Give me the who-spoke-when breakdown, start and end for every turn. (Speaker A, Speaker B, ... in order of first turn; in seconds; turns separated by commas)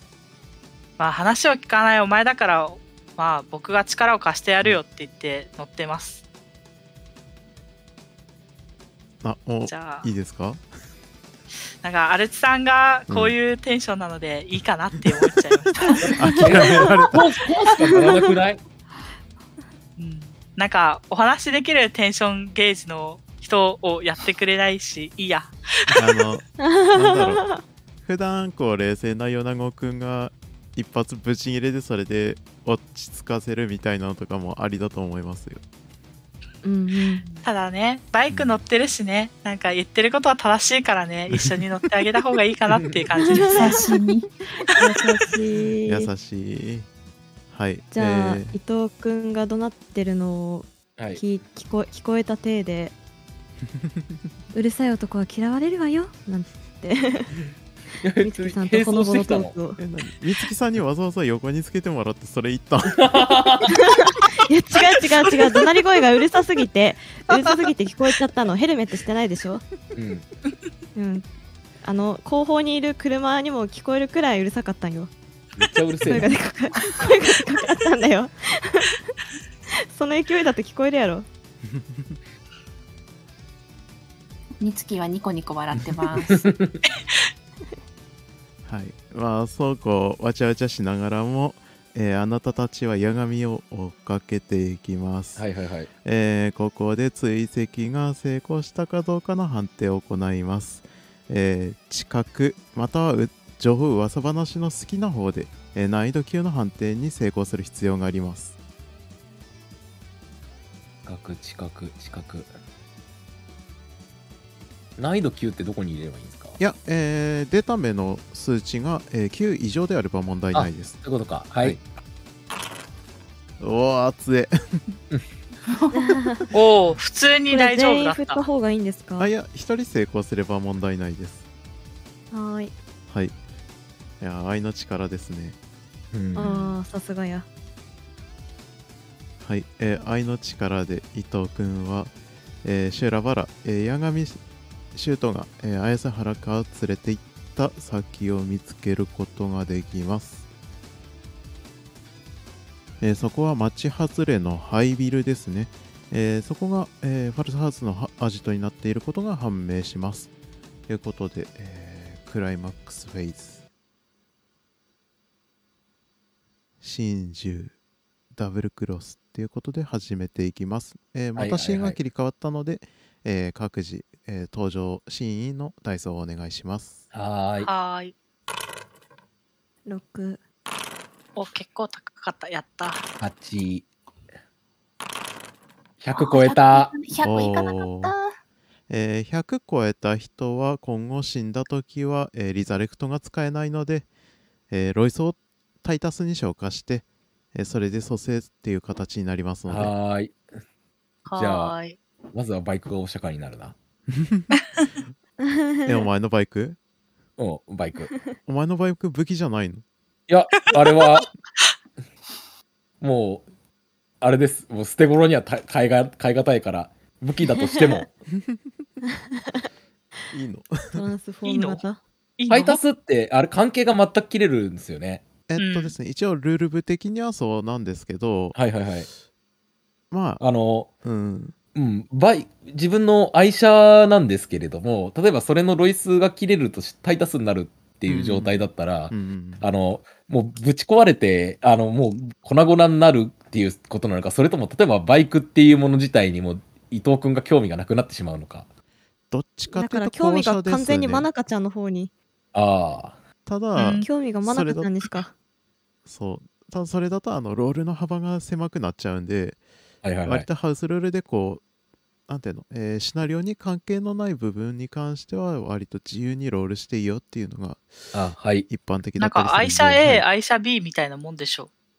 Speaker A: 1.0-6.2, Speaker B: 9.2-10.6, Speaker A: 9.7-10.1, Speaker A: 11.8-16.1, Speaker B: 13.1-13.3, Speaker C: 16.0-18.6, Speaker B: 16.1-17.2, Speaker D: 16.2-16.8, Speaker D: 17.9-18.2, Speaker A: 20.0-26.0, Speaker B: 25.9-27.4, Speaker D: 26.6-27.6, Speaker B: 28.0-35.6, Speaker D: 36.6-37.3, Speaker A: 37.4-43.8, Speaker D: 43.2-43.9, Speaker E: 43.5-44.3, Speaker D: 44.6-46.1, Speaker B: 45.9-46.9, Speaker B: 47.5-48.6, Speaker D: 47.9-52.9, Speaker C: 51.0-51.2, Speaker D: 54.5-57.4, Speaker C: 58.0-59.5, Speaker D: 58.2-59.8, Speaker B: 59.8-63.1, Speaker C: 62.9-63.7, Speaker D: 63.7-69.6, Speaker A: 64.9-65.6, Speaker C: 69.9-70.2, Speaker D: 71.0-71.2, Speaker D: 71.8-75.1, Speaker C: 75.6-76.3, Speaker D: 76.0-79.0, Speaker D: 79.9-81.3, Speaker B: 81.7-82.2, Speaker E: 84.6-86.5, Speaker C: 86.1-86.8, Speaker B: 88.7-95.4, Speaker C: 95.4-95.9, Speaker B: 96.0-108.5, Speaker C: 111.0-112.5, Speaker C: 115.0-116.6, Speaker B: 116.6-121.0, Speaker C: 120.5-121.8, Speaker B: 123.6-125.0, Speaker E: 125.7-126.2, Speaker D: 125.9-126.5, Speaker A: 126.5-128.4, Speaker D: 127.5-129.3, Speaker B: 129.2-131.4, Speaker D: 132.3-132.7, Speaker B: 133.1-133.3, Speaker B: 134.2-135.6, Speaker C: 136.1-136.5, Speaker D: 136.3-137.4, Speaker A: 136.4-136.7, Speaker B: 139.4-142.1, Speaker B: 142.6-144.4, Speaker B: 144.9-150.4, Speaker B: 153.0-160.3, Speaker B: 160.9-163.6, Speaker B: 166.8-167.7, Speaker B: 168.3-177.0, Speaker C: 171.3-172.0, Speaker C: 177.1-177.7, Speaker A: 177.6-178.1, Speaker D: 179.8-180.4, Speaker A: 181.3-183.0, Speaker C: 183.2-183.8, Speaker C: 186.0-186.9, Speaker E: 186.1-188.3, Speaker B: 187.2-188.1, Speaker B: 188.9-194.1, Speaker B: 194.7-199.9, Speaker C: 199.7-200.3, Speaker A: 201.2-202.0, Speaker C: 201.3-201.7, Speaker C: 202.3-203.8, Speaker B: 204.2-204.5, Speaker D: 205.8-206.1, Speaker B: 205.8-206.8, Speaker C: 207.4-208.1, Speaker B: 208.4-209.8, Speaker C: 210.3-211.3, Speaker C: 213.0-213.4, Speaker C: 214.2-218.1, Speaker B: 218.4-218.9, Speaker B: 220.3-221.1, Speaker D: 220.9-222.0, Speaker A: 221.4-221.8, Speaker A: 222.4-222.8, Speaker C: 222.5-225.2, Speaker B: 225.5-228.6, Speaker A: 225.6-225.9, Speaker C: 228.5-229.1, Speaker B: 230.1-230.4, Speaker C: 230.4-230.9, Speaker B: 231.0-231.5, Speaker C: 231.7-248.7, Speaker B: 238.1-239.6, Speaker B: 249.3-251.3, Speaker D: 249.7-252.1, Speaker C: 252.5-253.2, Speaker B: 253.4-255.0, Speaker A: 253.8-254.1, Speaker D: 254.0-255.3, Speaker B: 256.0-259.6, Speaker C: 260.0-260.5, Speaker B: 260.2-261.6, Speaker B: 262.3-267.9, Speaker C: 268.1-268.7, Speaker B: 268.7-270.2, Speaker A: 269.2-271.7